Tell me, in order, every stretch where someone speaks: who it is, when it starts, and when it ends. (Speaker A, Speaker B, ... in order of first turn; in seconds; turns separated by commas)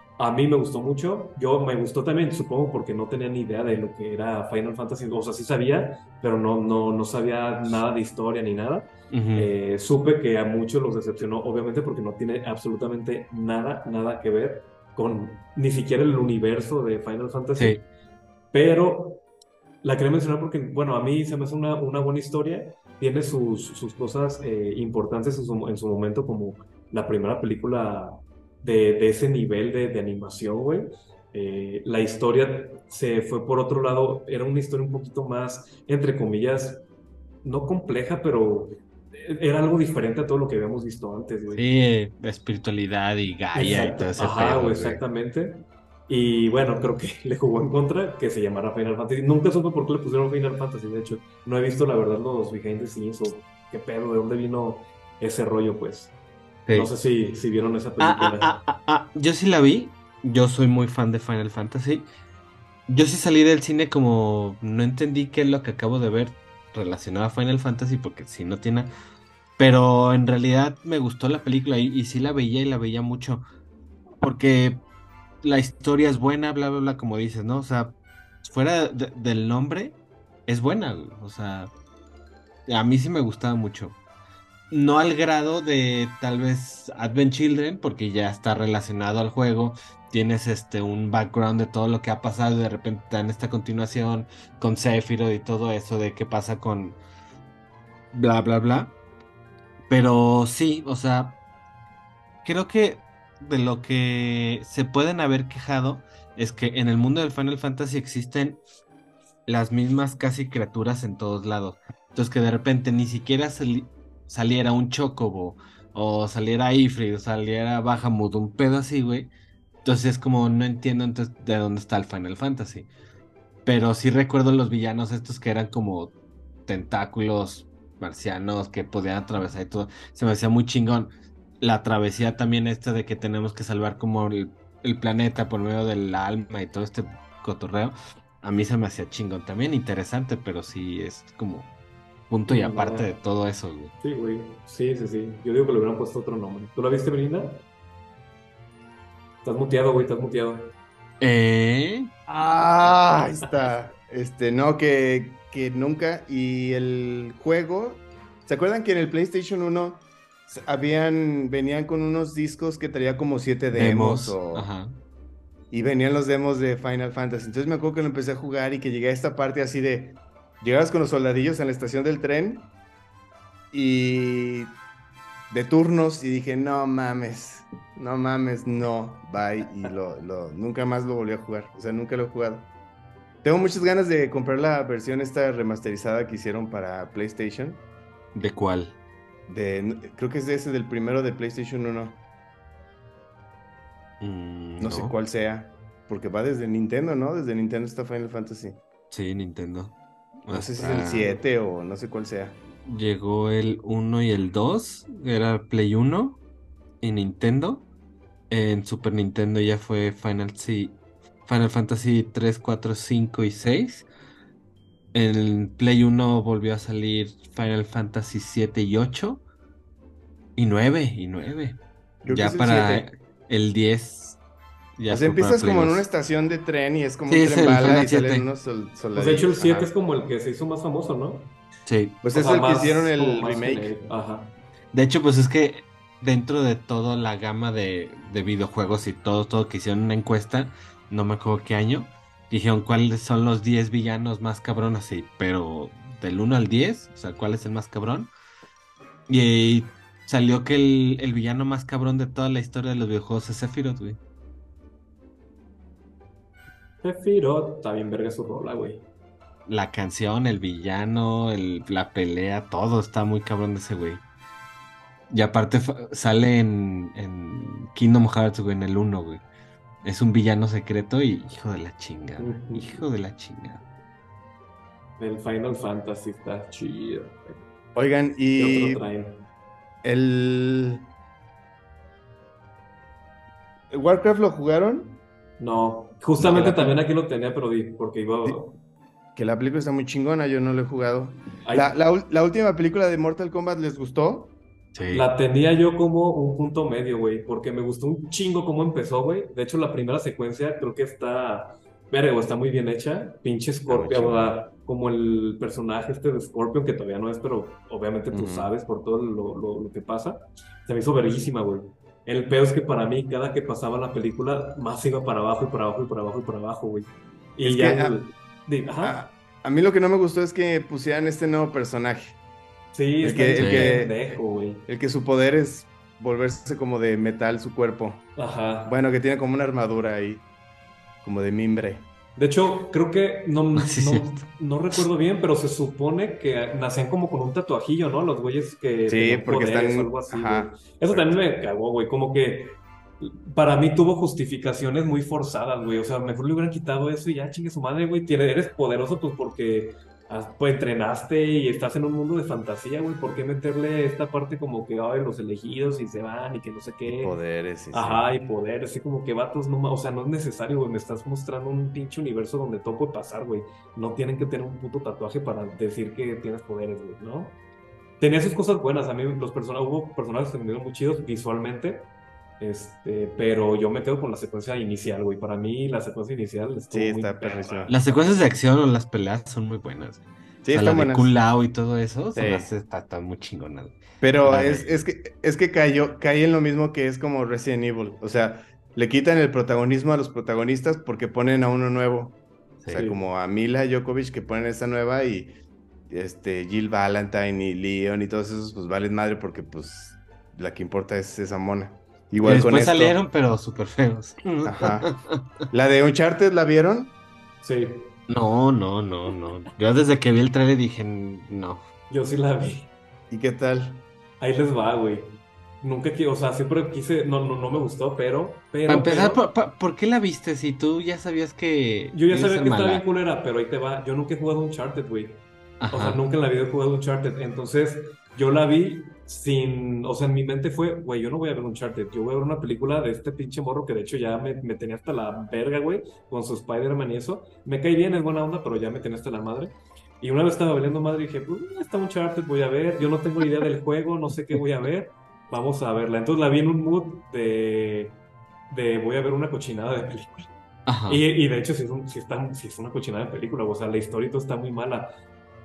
Speaker A: 0.2-17.8, Speaker B: 9.1-9.5, Speaker B: 17.6-17.8, Speaker A: 18.5-19.2, Speaker A: 19.8-36.8, Speaker A: 37.4-41.6, Speaker B: 41.5-45.0, Speaker A: 43.5-56.1, Speaker B: 56.6-56.9, Speaker A: 56.7-58.6, Speaker B: 58.0-62.1, Speaker B: 62.9-68.9, Speaker B: 69.6-73.5, Speaker B: 74.2-74.8, Speaker B: 75.4-80.0, Speaker B: 80.5-81.7, Speaker B: 82.7-84.0, Speaker B: 84.7-97.0, Speaker B: 98.1-98.9, Speaker B: 99.9-101.4, Speaker B: 102.4-108.6, Speaker B: 109.5-119.3, Speaker B: 119.8-122.9, Speaker B: 123.6-126.1, Speaker B: 126.7-141.7, Speaker B: 142.3-143.9, Speaker A: 142.5-143.2, Speaker A: 144.0-147.6, Speaker A: 149.4-150.7, Speaker B: 151.2-152.1, Speaker C: 152.3-164.7, Speaker B: 163.7-165.0, Speaker C: 165.7-172.7, Speaker C: 173.7-174.8, Speaker C: 175.5-182.7, Speaker C: 183.4-187.8, Speaker B: 188.3-188.9, Speaker C: 189.5-192.2, Speaker B: 194.2-195.1, Speaker C: 194.8-198.8, Speaker B: 199.1-199.9, Speaker B: 200.4-201.3, Speaker C: 200.5-202.6, Speaker B: 202.8-206.4, Speaker B: 207.0-207.8, Speaker B: 208.5-214.1, Speaker B: 215.1-219.4, Speaker B: 220.6-224.4, Speaker C: 222.2-223.1, Speaker B: 225.0-226.0, Speaker C: 225.1-229.9, Speaker B: 227.3-228.4, Speaker A: 229.1-231.5, Speaker B: 231.8-232.2, Speaker C: 232.2-233.9, Speaker A: 232.3-234.5, Speaker B: 234.9-248.3, Speaker B: 249.3-254.2, Speaker A: 257.0-259.1, Speaker B: 259.7-264.2, Speaker B: 265.3-269.4, Speaker B: 270.0-273.8, Speaker A: 272.4-273.1, Speaker A: 275.2-277.6, Speaker C: 277.9-279.0, Speaker A: 278.6-279.4, Speaker C: 280.0-281.1, Speaker C: 283.9-285.2, Speaker A: 285.6-288.8, Speaker C: 286.4-286.9, Speaker C: 289.3-294.5, Speaker A: 291.6-291.9, Speaker B: 294.9-295.3, Speaker A: 295.1-319.2, Speaker C: 303.9-304.5, Speaker C: 308.3-308.7, Speaker C: 317.6-318.2, Speaker C: 319.0-322.4, Speaker A: 322.9-324.9, Speaker C: 323.2-328.3, Speaker B: 323.6-324.0, Speaker A: 328.4-328.9, Speaker C: 328.9-330.4, Speaker C: 331.2-332.1, Speaker A: 332.4-357.4, Speaker B: 333.8-335.0, Speaker C: 339.1-341.4, Speaker C: 357.0-358.2, Speaker A: 357.9-367.6, Speaker A: 368.2-372.1, Speaker A: 372.6-378.4, Speaker C: 376.9-377.9, Speaker B: 377.9-384.9, Speaker C: 380.6-381.3, Speaker C: 382.4-382.7, Speaker C: 384.2-392.4, Speaker A: 392.9-393.2, Speaker C: 392.9-395.5, Speaker C: 396.1-403.2, Speaker B: 402.4-405.4, Speaker C: 404.6-405.1, Speaker C: 405.7-407.1, Speaker A: 407.6-408.1, Speaker B: 408.3-411.8, Speaker A: 412.1-412.9, Speaker C: 413.3-414.0, Speaker A: 414.4-419.4, Speaker B: 418.9-423.0, Speaker A: 422.1-448.2, Speaker B: 425.8-426.2, Speaker A: 448.7-450.5, Speaker B: 450.9-451.2, Speaker A: 451.1-455.1